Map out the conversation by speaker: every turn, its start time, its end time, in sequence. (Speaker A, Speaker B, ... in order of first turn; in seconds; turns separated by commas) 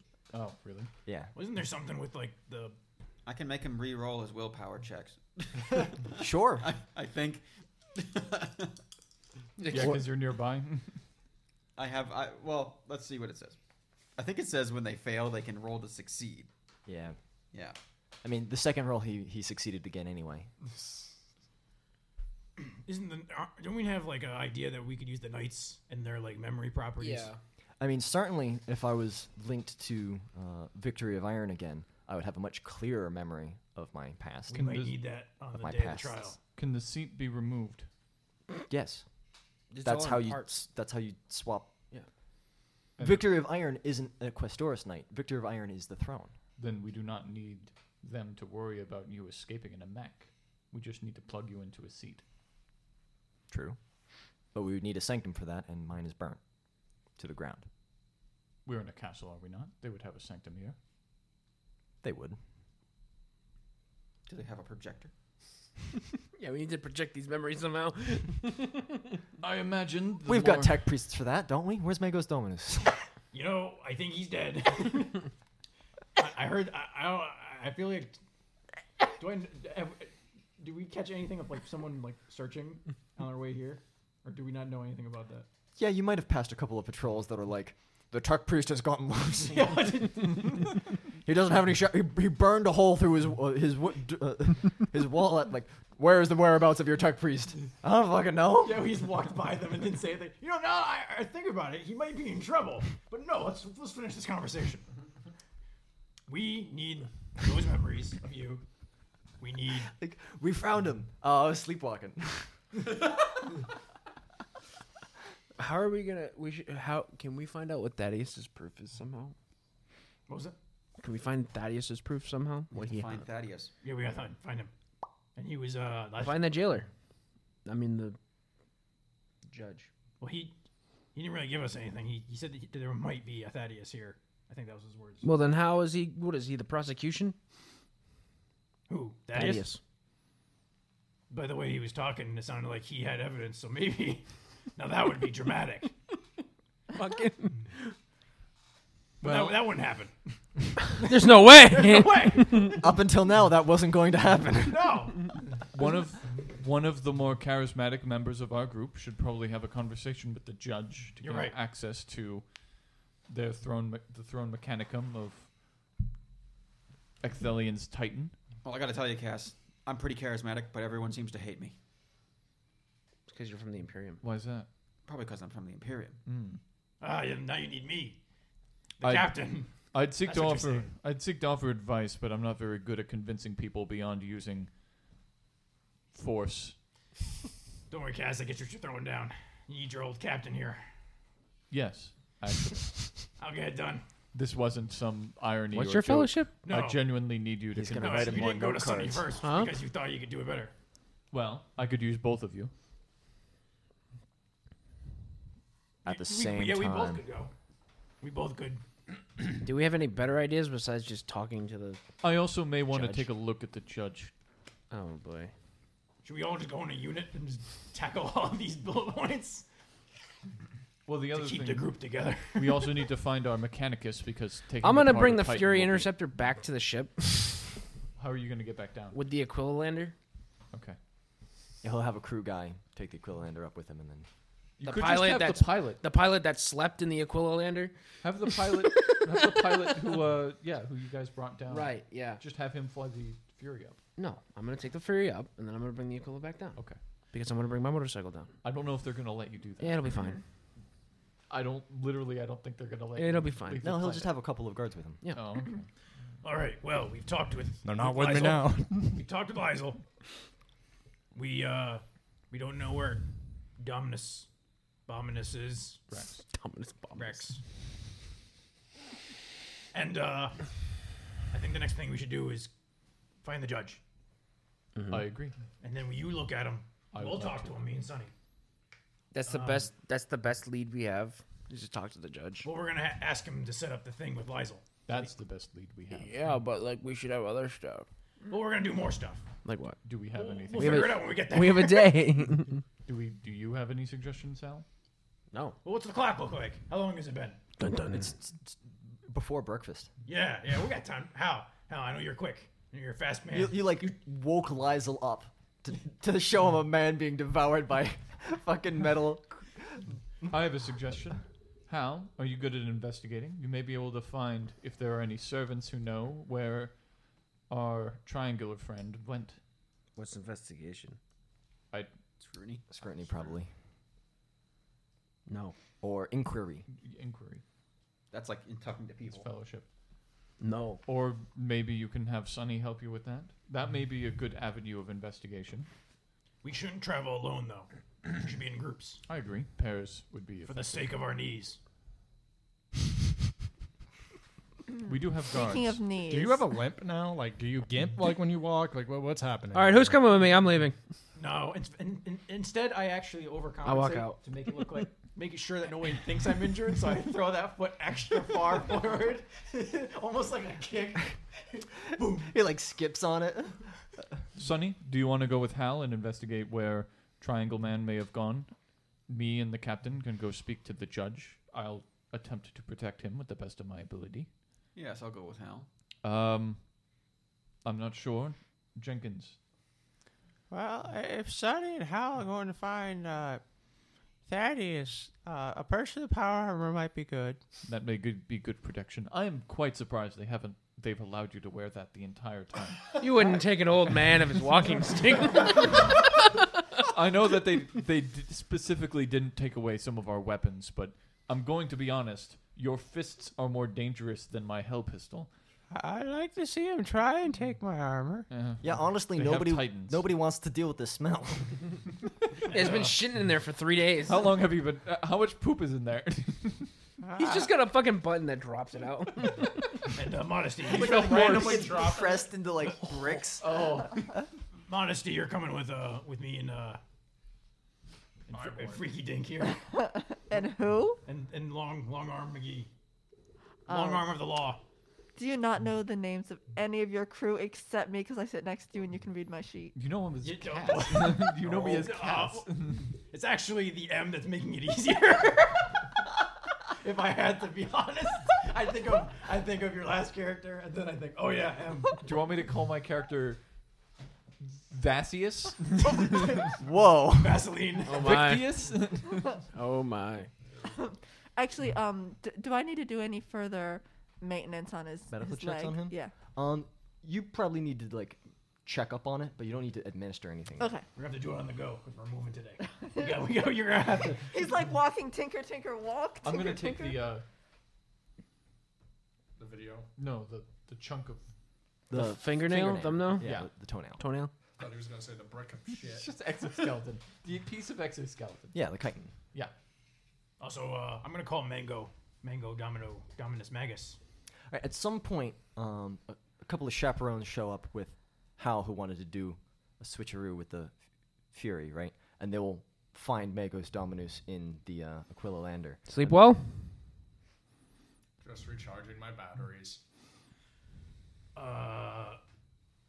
Speaker A: 0.3-0.9, Speaker B: 1.1-1.3, Speaker C: 1.4-2.8, Speaker D: 3.3-8.8, Speaker B: 6.2-6.7, Speaker A: 9.7-11.0, Speaker D: 11.8-13.6, Speaker D: 14.2-16.5, Speaker B: 16.9-17.2, Speaker B: 18.2-20.5, Speaker C: 22.6-27.3, Speaker E: 27.0-27.4, Speaker B: 27.8-34.6, Speaker A: 34.5-35.0, Speaker C: 34.5-36.4, Speaker B: 35.6-36.3, Speaker A: 36.6-37.9, Speaker B: 38.7-39.0, Speaker E: 39.7-40.6, Speaker B: 39.8-41.7, Speaker A: 43.0-43.3, Speaker B: 43.0-46.3, Speaker A: 46.6-52.2, Speaker B: 53.5-53.8, Speaker B: 54.5-56.4, Speaker B: 57.2-57.7, Speaker A: 58.6-60.8, Speaker B: 62.0-62.4, Speaker D: 64.3-65.1, Speaker E: 66.4-69.2, Speaker A: 69.4-70.8, Speaker B: 70.2-73.0, Speaker C: 73.3-75.3, Speaker C: 76.2-78.2, Speaker C: 79.2-85.5, Speaker B: 85.8-90.0, Speaker C: 89.4-90.5, Speaker B: 91.2-98.9, Speaker C: 98.6-104.8, Speaker C: 106.3-108.6, Speaker C: 109.4-109.9, Speaker B: 109.9-112.5, Speaker E: 115.6-119.3, Speaker C: 120.3-120.5, Speaker E: 121.0-123.3, Speaker D: 122.7-123.7, Speaker C: 123.8-124.7, Speaker C: 125.4-126.4, Speaker E: 126.2-126.9, Speaker E: 127.7-128.2, Speaker E: 129.5-129.9, Speaker C: 130.2-130.5, Speaker C: 131.2-135.3, Speaker E: 135.2-137.4, Speaker C: 138.9-139.7, Speaker E: 139.3-139.8, Speaker C: 141.3-144.3, Speaker C: 144.8-145.9, Speaker E: 146.9-147.9, Speaker A: 149.2-149.6, Speaker C: 149.2-150.1, Speaker C: 151.0-152.8, Speaker E: 151.0-152.8, Speaker B: 152.8-155.1, Speaker C: 154.7-155.5, Speaker A: 155.7-162.5, Speaker C: 161.2-161.6, Speaker A: 163.3-165.5, Speaker A: 167.2-168.3, Speaker D: 168.6-171.8, Speaker E: 173.3-174.2, Speaker A: 174.2-174.7, Speaker D: 175.1-176.2, Speaker A: 176.3-176.6, Speaker C: 177.0-178.2, Speaker C: 179.0-180.9, Speaker A: 179.0-184.7, Speaker A: 186.1-186.8, Speaker C: 187.9-190.8, Speaker A: 191.7-193.3, Speaker C: 193.4-194.0, Speaker A: 194.3-198.5, Speaker E: 195.7-196.5, Speaker C: 196.6-197.0, Speaker B: 197.7-199.3, Speaker C: 198.0-200.7, Speaker E: 199.4-199.8, Speaker A: 201.3-202.7, Speaker B: 206.1-207.2, Speaker C: 206.1-207.5, Speaker C: 208.2-208.8, Speaker E: 209.6-212.0, Speaker A: 212.2-214.3, Speaker E: 212.9-213.3, Speaker E: 214.9-215.5, Speaker C: 216.2-219.7, Speaker A: 221.1-221.9, Speaker C: 221.3-222.9, Speaker A: 222.5-226.1, Speaker E: 224.8-227.8, Speaker A: 228.2-229.2, Speaker E: 229.1-230.2, Speaker A: 230.7-231.0, Speaker B: 231.8-234.3, Speaker A: 234.8-236.0, Speaker E: 234.8-237.9, Speaker A: 238.2-244.0, Speaker E: 238.8-240.0, Speaker E: 241.7-242.4, Speaker E: 244.2-246.8, Speaker E: 247.3-248.5, Speaker A: 248.6-250.0, Speaker E: 249.8-250.4, Speaker A: 251.5-254.3, Speaker E: 253.2-254.2, Speaker B: 253.8-255.2, Speaker A: 255.3-255.9, Speaker C: 256.4-260.0, Speaker F: 257.8-259.2, Speaker C: 261.3-264.5, Speaker C: 265.1-266.0, Speaker A: 266.1-266.4, Speaker E: 266.4-267.5, Speaker C: 267.2-267.6, Speaker C: 269.9-270.6, Speaker C: 271.5-272.7, Speaker C: 273.4-274.0, Speaker E: 274.9-275.2, Speaker A: 275.1-275.6, Speaker C: 275.8-278.3, Speaker A: 277.1-277.8, Speaker E: 279.3-282.7, Speaker C: 279.5-279.9, Speaker C: 282.6-285.3, Speaker A: 285.1-286.5, Speaker E: 286.1-288.1, Speaker C: 288.5-289.4, Speaker E: 289.6-290.0, Speaker A: 290.1-291.2, Speaker C: 290.4-292.2, Speaker E: 290.8-292.8, Speaker A: 293.1-294.9, Speaker E: 295.5-295.8, Speaker C: 295.8-297.6, Speaker E: 297.8-298.3, Speaker B: 298.1-300.1, Speaker C: 300.3-304.1, Speaker B: 303.5-310.2, Speaker A: 310.5-317.0, Speaker A: 317.7-319.6, Speaker E: 320.2-321.2, Speaker D: 322.4-323.6, Speaker B: 322.9-323.7, Speaker E: 325.5-325.8, Speaker B: 326.0-326.9, Speaker A: 326.9-327.6, Speaker D: 328.3-329.5, Speaker A: 329.3-329.9, Speaker E: 330.6-331.0, Speaker A: 331.1-335.9, Speaker C: 336.6-339.2, Speaker A: 339.3-341.1, Speaker C: 340.7-341.8, Speaker A: 345.1-346.0, Speaker G: 345.1-346.6, Speaker F: 346.2-350.2, Speaker E: 349.7-350.9, Speaker C: 351.4-362.5, Speaker E: 353.9-354.4, Speaker B: 362.4-363.9, Speaker A: 364.6-368.7, Speaker A: 369.3-374.5, Speaker D: 374.9-375.9, Speaker A: 376.2-376.8, Speaker A: 377.9-379.6, Speaker H: 380.7-383.6, Speaker H: 384.4-387.6, Speaker A: 387.9-393.2, Speaker E: 393.2-396.5, Speaker A: 397.0-405.5, Speaker H: 405.9-408.5, Speaker A: 408.5-410.3, Speaker B: 408.8-411.8, Speaker E: 412.7-414.5, Speaker C: 412.8-413.1, Speaker A: 414.3-416.9, Speaker H: 417.2-417.7, Speaker E: 417.4-420.0, Speaker C: 420.1-421.9, Speaker F: 420.9-422.5, Speaker B: 420.9-423.7, Speaker A: 423.6-424.2, Speaker C: 424.9-427.0, Speaker C: 428.5-429.8, Speaker F: 428.5-429.2, Speaker G: 429.9-431.2, Speaker C: 431.2-432.9, Speaker G: 433.9-434.2, Speaker C: 433.9-434.8, Speaker G: 435.4-440.0, Speaker A: 439.9-443.1, Speaker C: 440.4-446.2, Speaker C: 447.0-452.2, Speaker A: 452.2-453.6, Speaker A: 454.9-456.5, Speaker C: 456.1-456.7, Speaker B: 456.8-457.6, Speaker C: 457.4-458.3, Speaker E: 458.1-458.9, Speaker A: 458.2-459.6, Speaker E: 459.7-460.5, Speaker G: 461.6-466.3, Speaker B: 465.3-470.9, Speaker G: 470.8-471.1, Speaker C: 471.2-474.5, Speaker G: 474.5-477.3, Speaker A: 476.4-477.4, Speaker F: 479.6-480.1, Speaker A: 480.2-481.4, Speaker B: 482.1-484.2, Speaker E: 482.1-483.6, Speaker A: 483.4-483.7, Speaker E: 484.2-484.5, Speaker F: 484.8-486.3, Speaker A: 486.1-488.8, Speaker B: 488.7-489.3, Speaker C: 490.6-494.2, Speaker B: 494.7-500.9, Speaker B: 501.5-506.4, Speaker E: 506.1-506.9, Speaker F: 508.4-510.0, Speaker C: 511.6-512.4